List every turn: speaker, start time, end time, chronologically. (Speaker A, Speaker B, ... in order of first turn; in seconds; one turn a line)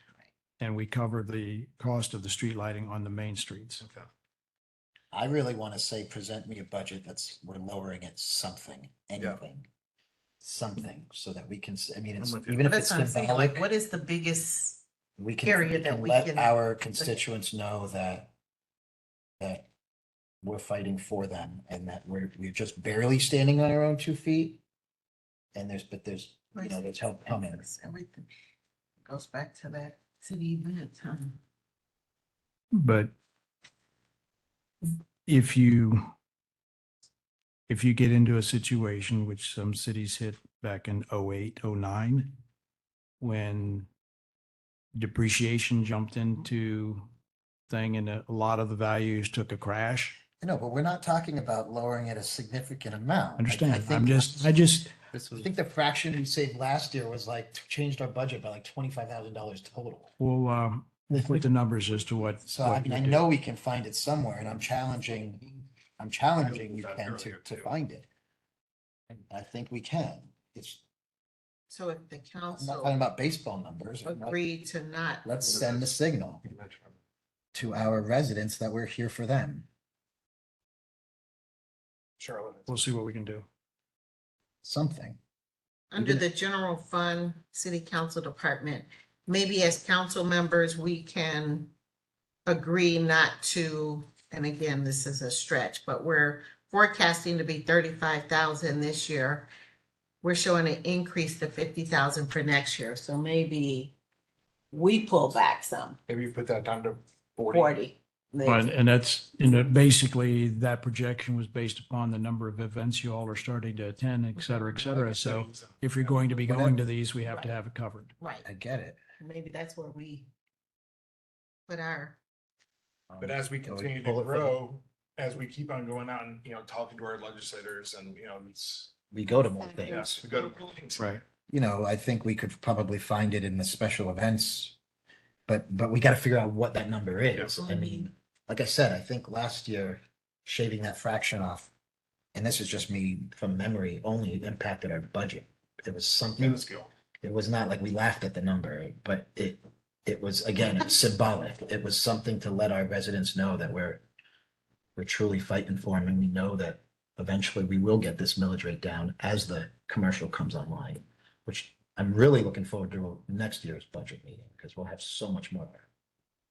Speaker A: 0.6-3.8
Speaker B: 3.8-4.1
Speaker C: 5.1-9.7
Speaker C: 10.4-13.7
Speaker B: 12.2-12.6
Speaker D: 12.6-14.8
Speaker C: 15.2-18.3
Speaker D: 15.4-17.2
Speaker C: 19.4-19.6
Speaker C: 20.4-24.6
Speaker C: 25.5-27.6
Speaker D: 26.5-28.3
Speaker D: 29.0-31.4
Speaker A: 32.7-33.1
Speaker A: 35.2-36.1
Speaker A: 37.7-42.4
Speaker A: 43.2-43.9
Speaker A: 44.9-47.1
Speaker A: 47.7-50.2
Speaker C: 50.4-54.6
Speaker A: 53.4-54.9
Speaker C: 55.3-60.1
Speaker A: 60.2-63.2
Speaker C: 61.1-61.4
Speaker C: 62.4-68.1
Speaker B: 66.4-67.7
Speaker C: 69.3-70.8
Speaker D: 71.7-73.0
Speaker C: 72.5-74.4
Speaker D: 74.0-75.3
Speaker C: 75.2-76.4
Speaker B: 75.5-75.9
Speaker B: 76.5-77.0
Speaker C: 77.5-79.7
Speaker B: 82.2-82.7
Speaker A: 82.7-83.5
Speaker C: 84.6-85.2
Speaker D: 85.9-91.7
Speaker C: 86.0-86.2
Speaker D: 92.5-99.5
Speaker D: 100.2-104.0
Speaker D: 104.7-106.0
Speaker B: 106.1-107.8
Speaker D: 107.5-108.8
Speaker A: 108.4-118.1
Speaker B: 114.8-116.3
Speaker C: 116.4-116.8
Speaker D: 117.2-117.6
Speaker D: 118.2-118.5
Speaker C: 118.4-119.0
Speaker D: 119.2-120.3
Speaker D: 121.7-122.2
Speaker C: 123.1-124.5
Speaker B: 123.2-128.9
Speaker C: 129.1-130.2
Speaker B: 129.9-131.1
Speaker C: 131.5-134.8
Speaker C: 135.5-141.7
Speaker C: 142.3-146.6
Speaker B: 146.4-146.9
Speaker C: 147.2-154.0
Speaker C: 154.9-165.9